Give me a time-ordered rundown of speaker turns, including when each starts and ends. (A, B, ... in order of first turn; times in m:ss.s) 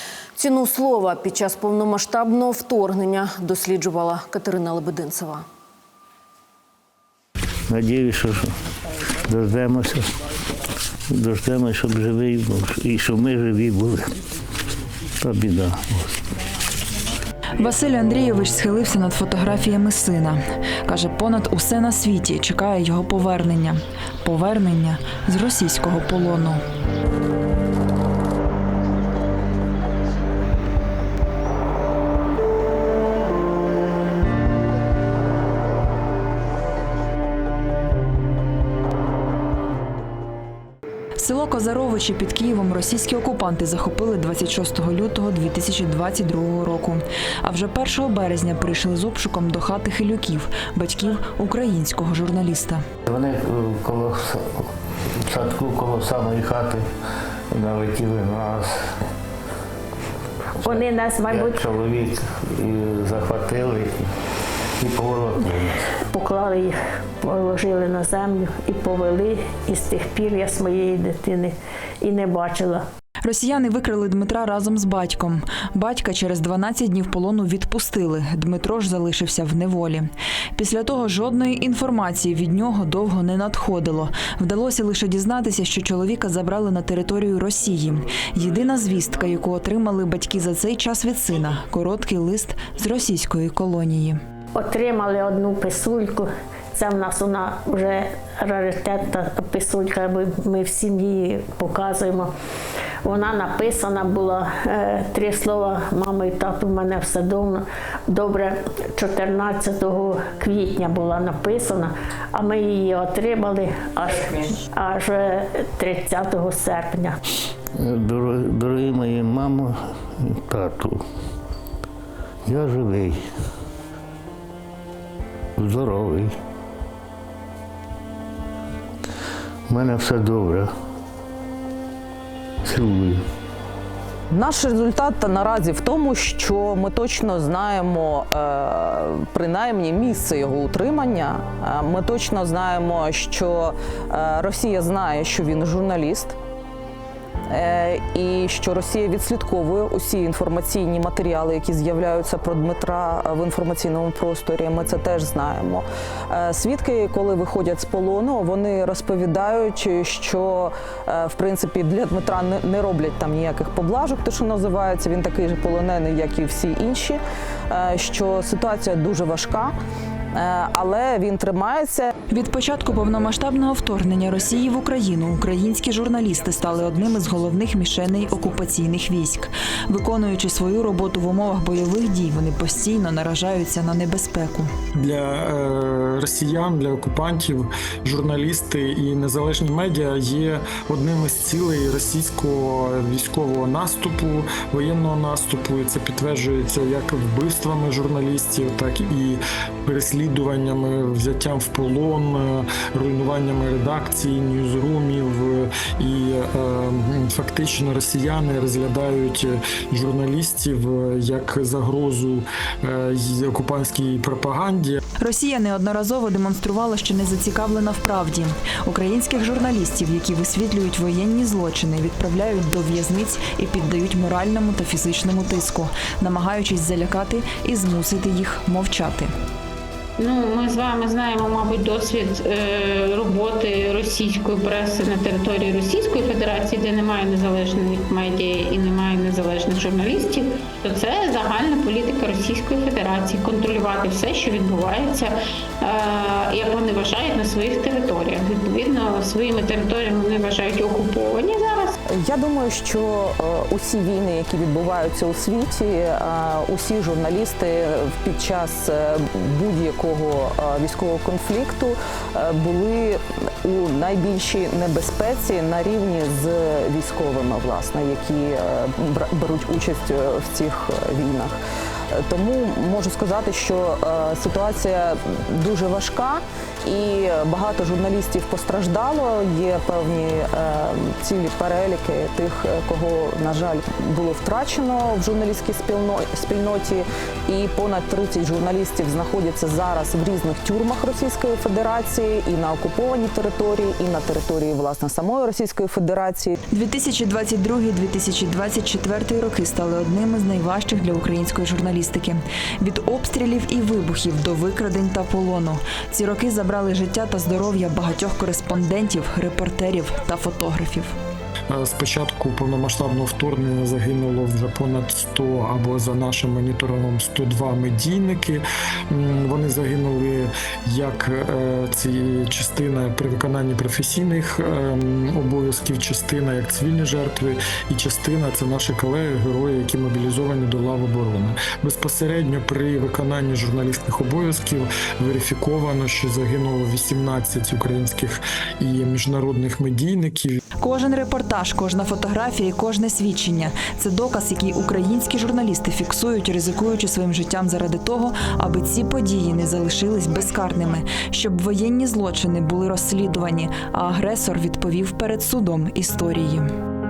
0:00.4-0:05.4 A
0:07.7-0:08.6 B
0:09.3-0:10.1 B
0:11.1-0:14.2 B
0:15.2-0:16.2 B
0:17.6-0:26.6 C
0:41.2-0:52.8 C
0:53.1-0:56.9 B
0:57.5-0:58.9 B
1:00.6-1:04.0 B
1:00.6-1:01.6 D
1:04.8-1:05.9 B
1:06.1-1:12.8 D
1:13.2-1:34.2 C
1:34.5-1:42.3 D
1:43.0-1:57.2 D
1:57.8-2:01.0 B
2:02.5-2:03.3 B
2:05.6-2:06.4 B
2:09.7-2:10.7 B
2:12.6-2:13.2 B
2:14.3-2:26.4 E
2:27.5-2:49.8 E
2:50.3-2:52.1 E
2:52.3-3:04.7 C
3:05.0-3:35.0 F
3:35.2-3:49.3 C
3:50.2-4:11.9 G
4:12.1-4:31.6 E
4:32.1-4:56.6 E
4:56.7-5:11.2 C
5:11.7-5:40.6 F
5:40.8-5:56.7 C